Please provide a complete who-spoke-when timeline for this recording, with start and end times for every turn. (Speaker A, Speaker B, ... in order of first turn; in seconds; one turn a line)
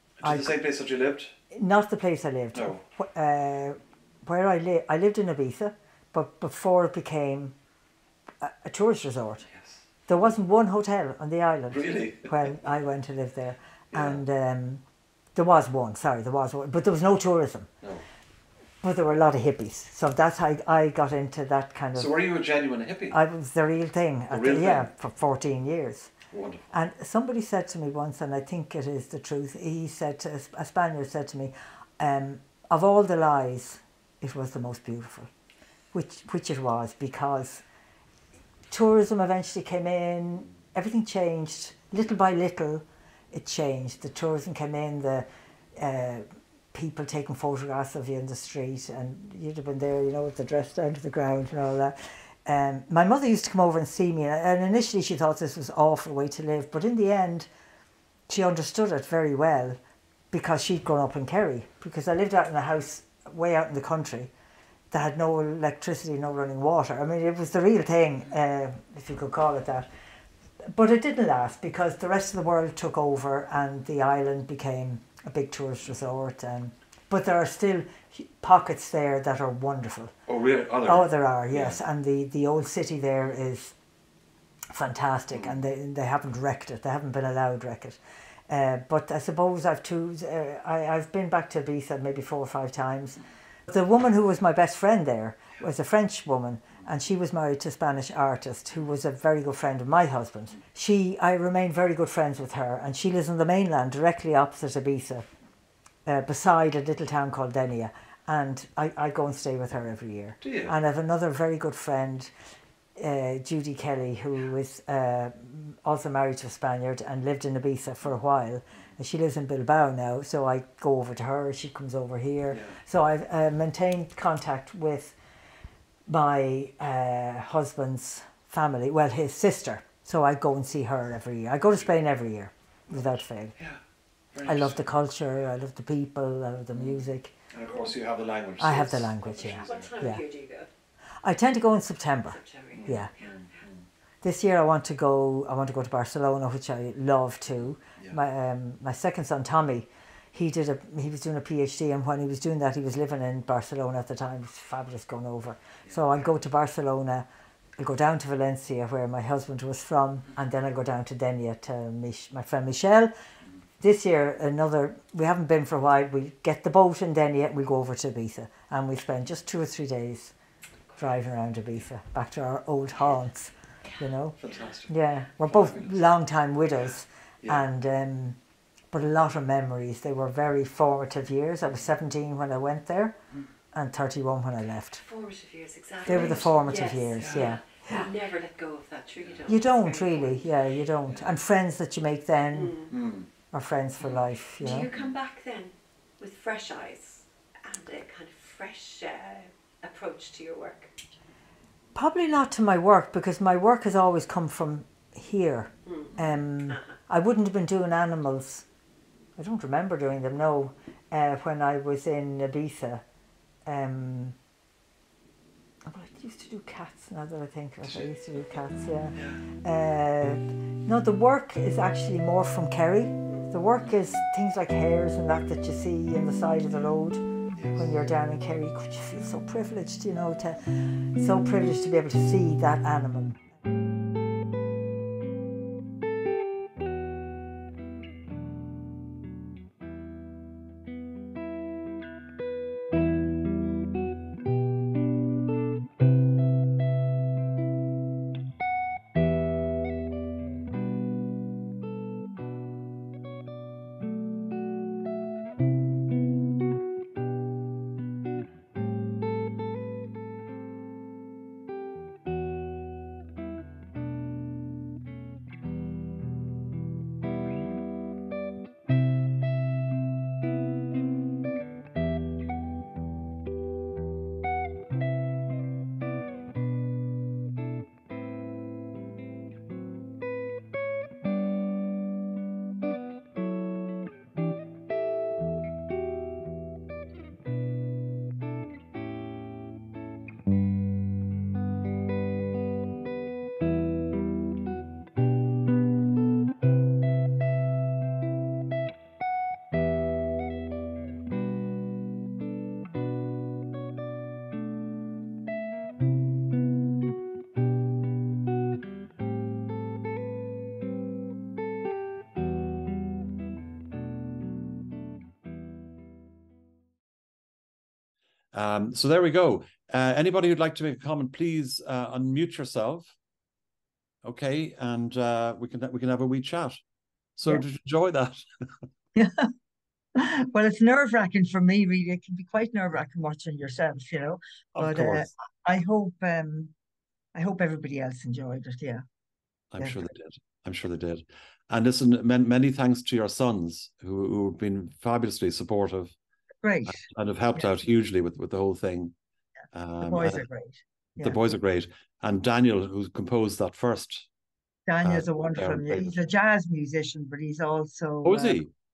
Speaker A: 0.2-1.3
Speaker B: 0.2-0.6
Speaker B: 1.5-7.5
Speaker A: 2.5-2.8
Speaker B: 8.4-9.4
Speaker A: 9.5-9.8
Speaker B: 10.1-14.8
Speaker A: 11.7-12.5
Speaker A: 13.9-14.2
Speaker B: 15.3-17.7
Speaker B: 18.8-22.1
Speaker A: 21.9-23.2
Speaker B: 23.1-26.1
Speaker A: 24.3-24.9
Speaker A: 26.3-26.6
Speaker B: 26.7-35.3
Speaker B: 35.9-37.6
Speaker B: 38.7-57.5
Speaker B: 58.3-59.8
Speaker B: 60.3-64.3
Speaker B: 64.9-69.9
Speaker B: 70.7-80.1
Speaker A: 80.3-81.8
Speaker B: 80.8-83.7
Speaker B: 84.7-105.2
Speaker A: 85.3-85.6
Speaker B: 106.0-112.3
Speaker A: 110.4-110.7
Speaker B: 113.0-125.2
Speaker A: 122.5-122.8
Speaker B: 126.1-133.5
Speaker A: 132.9-133.8
Speaker A: 134.3-134.9
Speaker B: 134.4-137.3
Speaker A: 136.7-139.9
Speaker B: 138.6-140.2
Speaker C: 139.3-140.7
Speaker B: 141.2-143.1
Speaker C: 142.3-143.5
Speaker A: 142.7-143.8
Speaker B: 144.2-163.1
Speaker B: 163.8-170.3
Speaker B: 171.0-174.3
Speaker C: 173.8-174.7
Speaker A: 174.4-174.9
Speaker B: 174.9-178.4
Speaker A: 175.5-176.0
Speaker B: 178.9-183.2
Speaker B: 183.7-185.0
Speaker C: 185.0-190.5
Speaker B: 186.0-188.1
Speaker A: 186.1-186.5
Speaker A: 187.2-187.6
Speaker A: 189.2-189.5
Speaker B: 189.5-192.8
Speaker C: 192.5-192.9
Speaker A: 192.9-193.3
Speaker B: 193.5-194.9
Speaker C: 194.6-200.9
Speaker B: 201.9-208.7
Speaker C: 205.8-206.9
Speaker B: 209.3-213.0
Speaker B: 213.7-214.3
Speaker B: 215.8-233.4
Speaker A: 219.1-219.4
Speaker A: 227.5-227.9
Speaker A: 318.5-323.1
Speaker A: 324.2-326.8
Speaker A: 327.4-328.8
Speaker D: 329.1-329.5
Speaker D: 330.1-336.7
Speaker A: 334.8-335.3
Speaker D: 337.3-339.0
Speaker A: 339.7-346.1
Speaker D: 346.6-347.7
Speaker A: 346.9-349.1
Speaker A: 349.7-350.4
Speaker D: 350.0-351.5
Speaker A: 351.2-354.3
Speaker D: 354.9-358.6
Speaker A: 355.0-356.2
Speaker A: 358.2-358.7